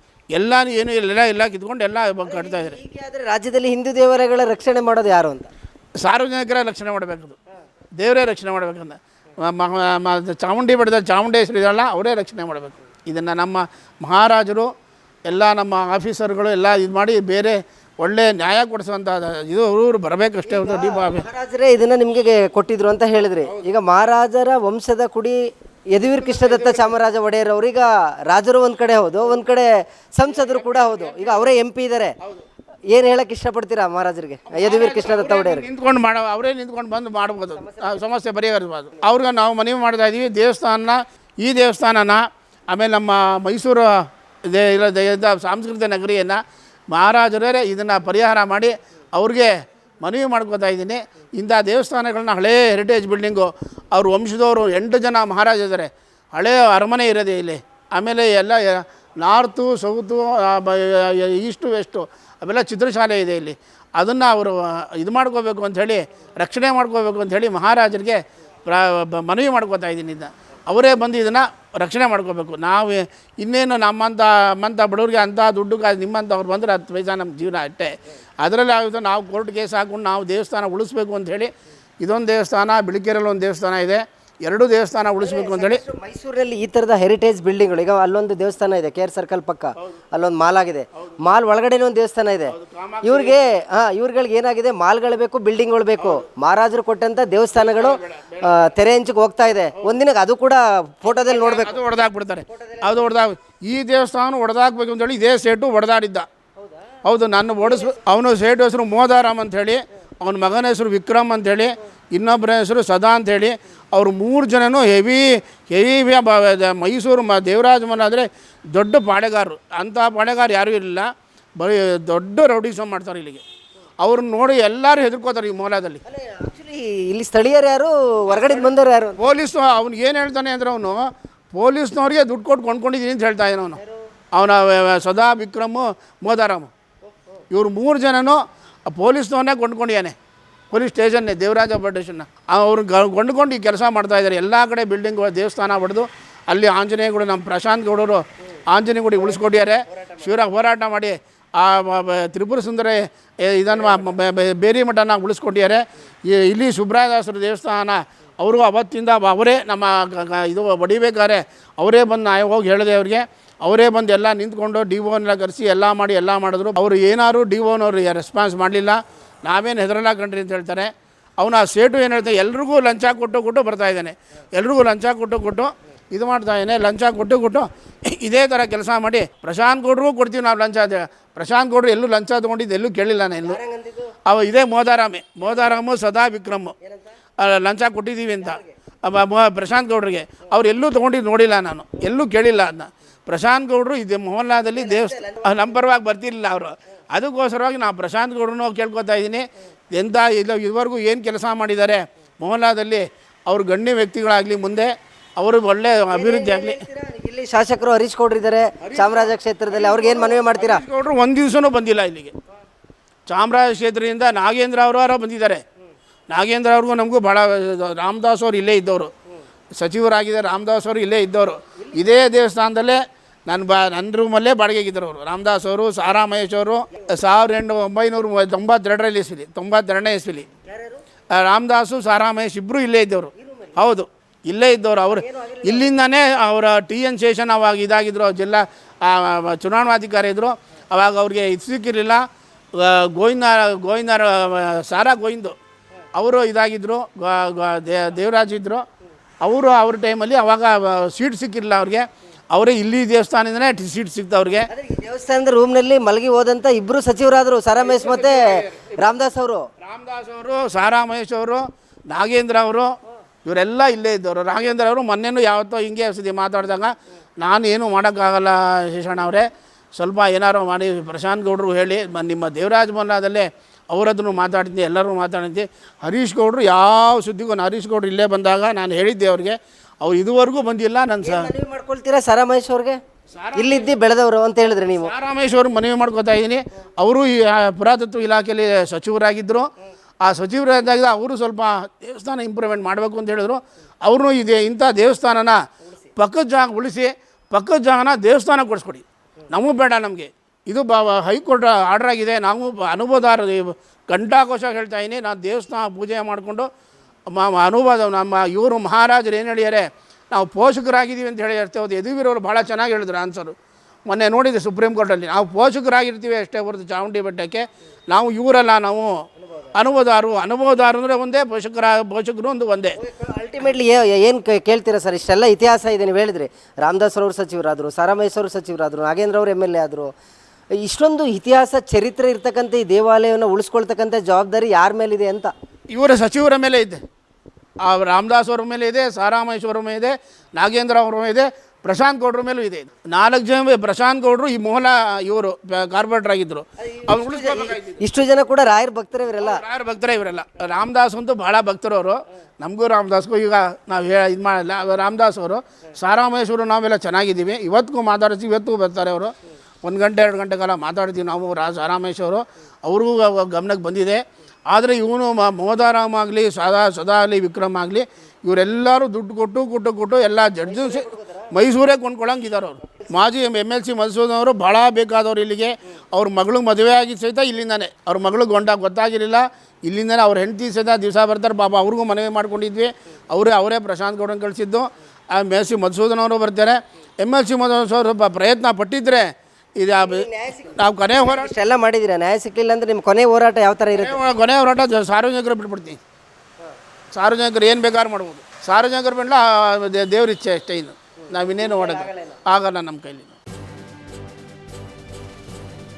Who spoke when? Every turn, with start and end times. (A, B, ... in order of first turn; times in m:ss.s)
0:00.3-0:02.8 A
0:02.2-0:05.5 B
0:06.0-0:07.4 A
0:08.0-0:14.7 A
0:15.3-0:21.2 A
0:20.4-0:25.4 B
0:25.9-0:32.1 B
0:26.1-0:26.9 A
0:30.3-0:31.5 A
0:32.9-0:35.7 B
0:34.5-1:25.8 A
0:37.6-0:38.0 B
1:25.2-1:41.8 B
1:32.5-1:33.4 A
1:36.0-1:36.2 A
1:37.5-1:38.6 A
1:41.1-1:46.2 A
1:42.5-1:43.1 B
1:46.6-1:47.0 B
1:47.0-2:03.4 A
1:47.6-1:48.0 B
2:04.0-2:06.0 A
2:06.0-2:09.2 B
2:08.3-2:13.8 A
2:14.3-2:16.7 A
2:17.5-2:20.1 A
2:20.7-3:03.6 A
3:03.4-3:04.1 B
3:04.2-3:06.7 A
3:05.4-3:05.7 B
3:06.8-3:07.1 B
3:07.4-3:26.8 A
3:08.4-3:08.7 B
3:14.7-3:15.8 B
3:26.1-3:30.8 B
3:28.8-3:32.3 A
3:33.3-3:35.6 A
3:36.3-3:39.1 A
3:39.7-3:50.5 A
3:41.8-3:42.3 B
3:50.7-3:51.0 B
3:51.3-4:02.2 A
3:53.4-3:53.8 B
3:55.1-3:55.9 B
4:02.7-4:05.5 A
4:06.1-4:08.8 A
4:09.4-4:14.7 A
4:14.7-4:19.7 B
4:17.8-4:19.0 A
4:19.8-4:22.9 A
4:23.4-4:41.5 A
4:41.2-4:43.0 B
4:43.3-4:43.9 A
4:43.6-4:45.1 B
4:45.0-4:49.7 A
4:50.2-4:55.6 A
4:56.2-5:06.7 A
5:07.3-5:13.5 A
5:14.1-5:23.0 A
5:23.0-5:30.1 B
5:30.8-5:35.5 B
5:35.9-5:37.0 A
5:37.8-5:48.0 A
5:46.8-5:49.6 B
5:49.4-6:31.5 A
6:10.6-6:11.5 B
6:30.0-6:34.2 B
6:33.9-6:36.0 A
6:37.1-6:43.4 A
6:41.3-6:42.4 B